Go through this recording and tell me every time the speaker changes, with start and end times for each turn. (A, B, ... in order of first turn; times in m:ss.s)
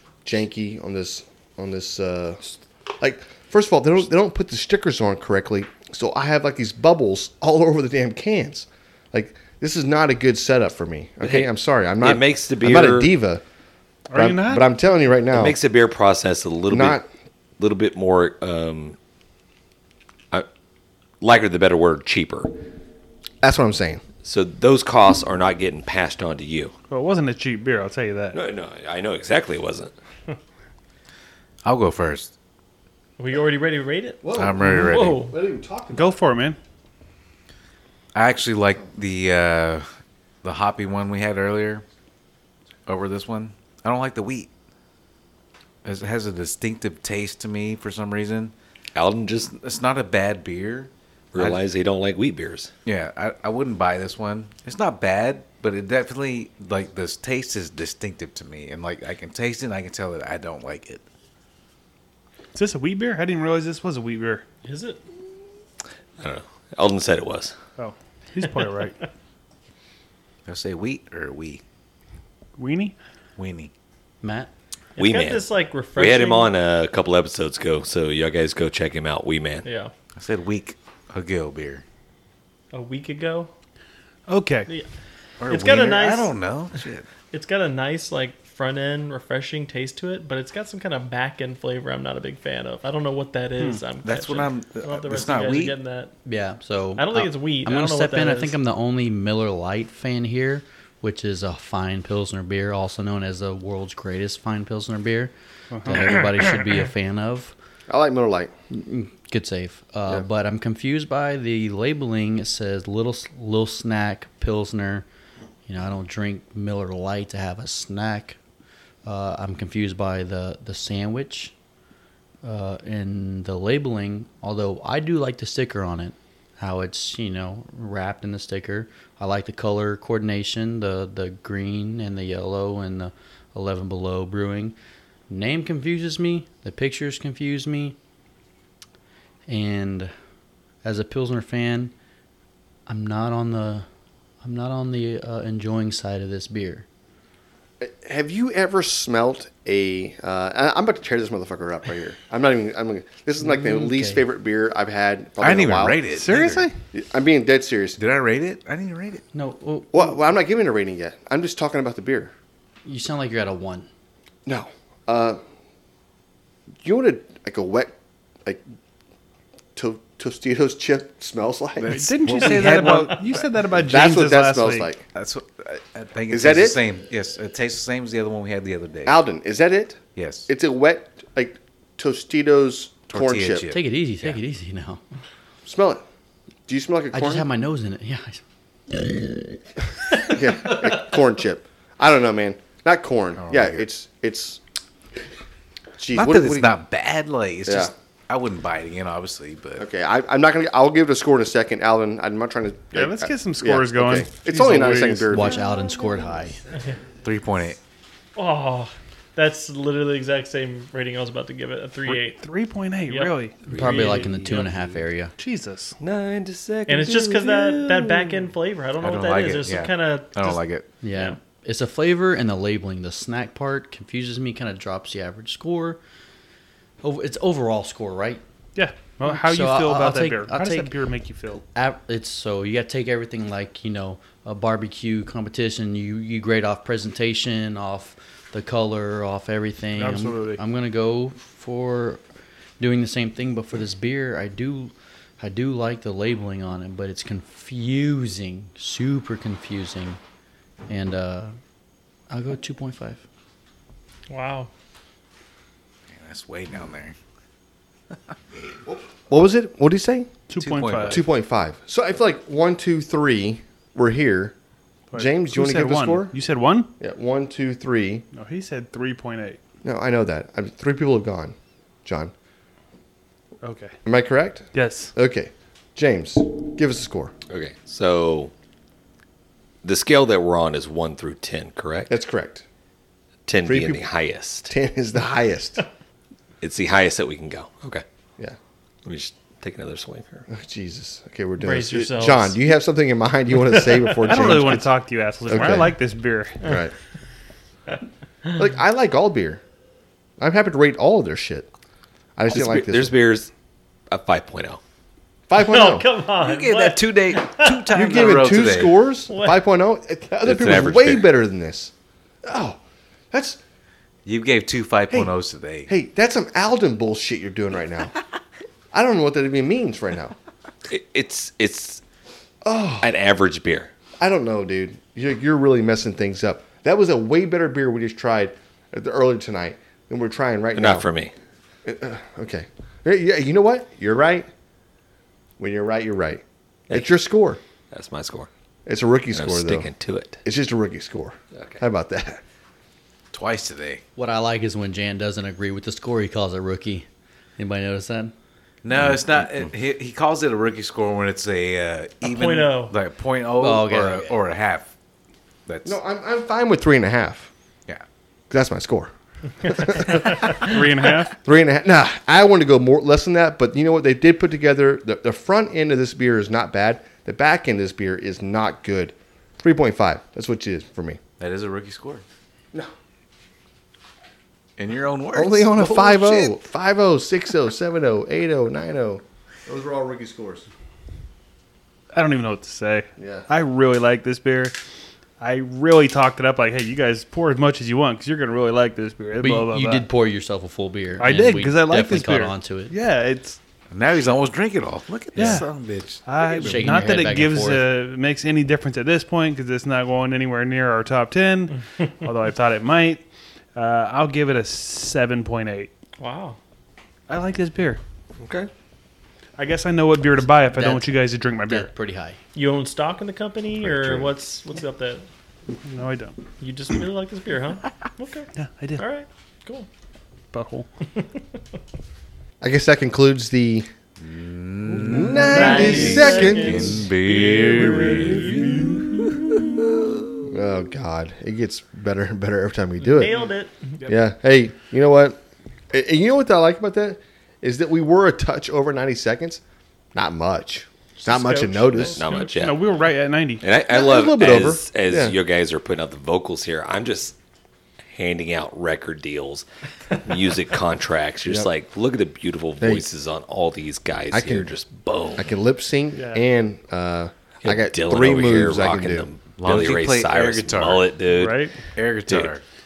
0:00.2-0:13.4 A
0:11.2-0:11.5 B
0:12.0-0:13.1 B
0:14.1-0:14.7 C
0:14.1-0:15.6 A
0:15.3-0:17.0 B
0:16.7-0:17.0 A
0:17.6-0:19.0 B
0:21.2-0:22.6 B
0:23.4-0:24.0 A
0:24.2-0:26.7 B
0:26.9-0:28.4 C
0:28.3-0:29.9 B
0:31.6-0:32.3 D
0:33.2-0:35.3 E
0:34.2-0:36.2 A
0:34.3-0:35.3 D
0:35.9-0:36.6 C
0:38.1-0:39.8 D
0:40.4-0:41.8 D
0:42.9-0:44.5 D
0:45.8-0:48.5 D
0:48.9-0:49.5 B
0:49.5-0:51.6 D
0:51.3-0:52.7 B
0:52.8-1:01.0 D
1:02.5-1:04.4 C
1:04.6-1:05.0 E
1:06.2-1:07.6 B
1:07.8-1:08.9 C
1:10.4-1:11.6 D
1:12.6-1:12.9 C
1:13.4-1:13.7 D
1:14.2-1:14.5 F
1:15.0-1:16.5 E
1:15.0-1:19.6 B
1:19.6-1:19.9 E
1:20.2-1:21.8 D
1:22.7-1:23.5 E
1:24.3-1:24.7 C
1:25.4-1:27.1 D
1:25.5-1:26.4 E
1:27.3-1:36.1 E
1:34.0-1:35.8 D
1:36.2-1:47.5 F
1:37.0-1:38.6 E
1:45.7-1:46.1 C
1:47.9-1:48.5 A
1:48.7-1:55.0 F
1:55.7-1:58.4 F
1:59.0-2:01.5 F
2:02.4-2:14.7 F
2:15.3-2:18.0 F
2:19.5-2:20.1 F
2:20.8-2:21.9 F
2:22.9-2:23.8 F
2:24.4-2:26.8 F
2:27.8-2:36.0 A
2:33.4-2:34.2 F
2:35.4-2:36.7 D
2:36.1-2:36.8 C
2:36.9-2:38.0 A
2:38.0-2:39.2 D
2:39.3-2:40.2 F
2:39.9-2:42.3 A
2:42.8-2:43.9 F
2:44.4-2:45.4 A
2:46.8-2:48.6 A
2:49.7-2:52.8 A
2:51.8-2:53.4 D
2:51.9-2:54.9 C
2:53.8-2:55.0 A
2:55.1-2:59.2 D
2:56.3-2:56.8 A
2:59.0-3:03.7 A
3:00.1-3:00.5 D
3:03.1-3:04.4 D
3:03.7-3:05.0 F
3:05.6-3:06.0 A
3:06.7-3:07.5 A
3:07.1-3:09.4 F
3:10.2-3:14.6 A
3:13.4-3:13.8 D
3:16.0-3:16.7 A
3:16.1-3:19.8 D
3:17.6-3:17.9 A
3:19.8-3:25.6 A
3:22.9-3:25.6 C
3:25.3-3:26.6 F
3:27.2-3:27.8 D
3:28.4-3:32.4 E
3:32.1-3:33.6 C
3:33.1-3:34.3 E
3:33.7-3:34.8 B
3:33.7-3:35.3 F
3:34.2-3:34.7 C
3:35.4-3:36.0 C
3:36.0-3:38.5 B
3:36.9-3:40.6 E
3:39.0-3:41.0 D
3:41.0-3:46.0 F
3:47.0-3:48.4 F
3:48.7-3:51.6 C
3:49.2-3:50.9 F
3:51.5-4:02.2 F
3:59.9-4:00.6 C
4:02.8-4:10.2 F
4:10.9-4:11.5 F
4:12.3-4:13.2 F
4:14.3-4:14.7 E
4:16.1-4:17.1 D
4:18.9-4:20.3 A
4:20.5-4:21.2 C
4:20.6-4:21.2 D
4:21.0-4:24.5 A
4:25.1-4:26.9 C
4:25.1-4:26.4 A
4:27.0-4:28.2 A
4:28.3-4:29.6 C
4:29.8-4:32.3 A
4:33.6-4:33.9 C
4:34.0-4:37.3 A
4:34.7-4:35.1 C
4:37.5-4:38.5 B
4:39.8-4:42.1 B
4:42.1-4:42.6 A
4:43.5-4:44.7 B
4:43.6-4:44.0 A
4:44.7-4:45.8 A
4:46.6-4:48.0 B
4:49.0-4:50.5 B
4:50.5-4:54.9 A
4:51.6-4:52.6 E
4:54.1-4:54.4 E
4:54.2-4:56.6 C
4:55.5-4:56.0 A
4:56.6-4:56.9 A
4:58.5-4:59.6 A
5:00.4-5:01.7 A
5:02.4-5:03.2 A
5:02.5-5:03.5 B
5:04.1-5:04.8 B
5:05.5-5:06.1 A
5:05.6-5:08.1 E
5:06.4-5:09.0 D
5:07.9-5:11.9 A
5:09.3-5:09.6 E
5:10.4-5:11.3 B
5:12.4-5:12.8 A
5:13.3-5:13.6 A
5:14.2-5:15.9 D
5:15.9-5:18.1 A
5:18.9-5:20.4 A
5:20.9-5:22.0 B
5:22.6-5:23.1 A
5:23.0-5:23.9 B
5:24.2-5:31.1 A
5:30.8-5:31.3 B
5:31.8-5:34.5 A
5:35.6-5:37.6 A
5:37.9-5:38.5 B
5:38.8-5:39.9 A
5:39.3-5:40.4 B
5:40.4-5:42.4 A
5:41.5-5:41.8 B
5:43.3-5:44.0 D
5:44.2-5:47.0 F
5:47.6-5:48.3 F
5:48.8-5:54.9 D
5:49.0-5:49.4 B
5:52.2-5:53.0 E
5:53.6-5:54.3 F
5:55.6-5:56.0 D
5:55.8-5:57.5 A
5:58.5-5:59.1 A
5:59.6-6:00.7 A
6:00.5-6:01.4 C
6:01.4-6:11.2 A
6:11.4-6:12.2 D
6:14.8-6:16.6 D
6:15.3-6:20.7 A
6:22.1-6:24.7 C
6:23.2-6:23.5 A
6:25.4-6:30.0 C
6:29.4-6:32.9 F
6:31.2-6:33.6 C
6:33.9-6:37.1 D
6:35.3-6:35.7 C
6:35.4-6:35.6 F
6:36.2-6:43.2 C
6:36.6-6:37.9 F
6:43.7-6:45.9 C
6:46.2-6:46.6 E
6:47.3-6:48.0 C
6:48.4-6:48.7 B
6:49.6-6:51.9 C
6:50.4-6:52.4 F
6:52.5-6:55.2 E
6:53.8-6:54.3 A
6:55.7-6:56.4 C
6:56.6-6:59.9 E
6:58.5-6:59.0 C
7:00.5-7:00.9 C
7:02.6-7:03.9 A
7:04.2-7:09.5 D
7:05.0-7:07.0 A
7:05.2-7:09.2 E
7:10.5-7:13.4 A
7:13.0-7:14.0 E
7:14.0-7:15.4 A
7:15.9-7:19.6 A
7:20.1-7:22.2 A
7:21.2-7:23.6 C
7:22.0-7:22.9 B
7:23.6-7:27.3 B
7:23.9-7:25.4 A
7:28.1-7:35.5 B
7:32.8-7:33.0 A
7:34.3-7:34.7 A
7:35.4-7:39.3 A
7:36.1-7:36.4 C
7:37.6-7:41.6 B
7:39.6-7:41.1 D
7:41.3-7:41.8 C
7:41.9-7:42.6 D
7:42.3-7:42.5 B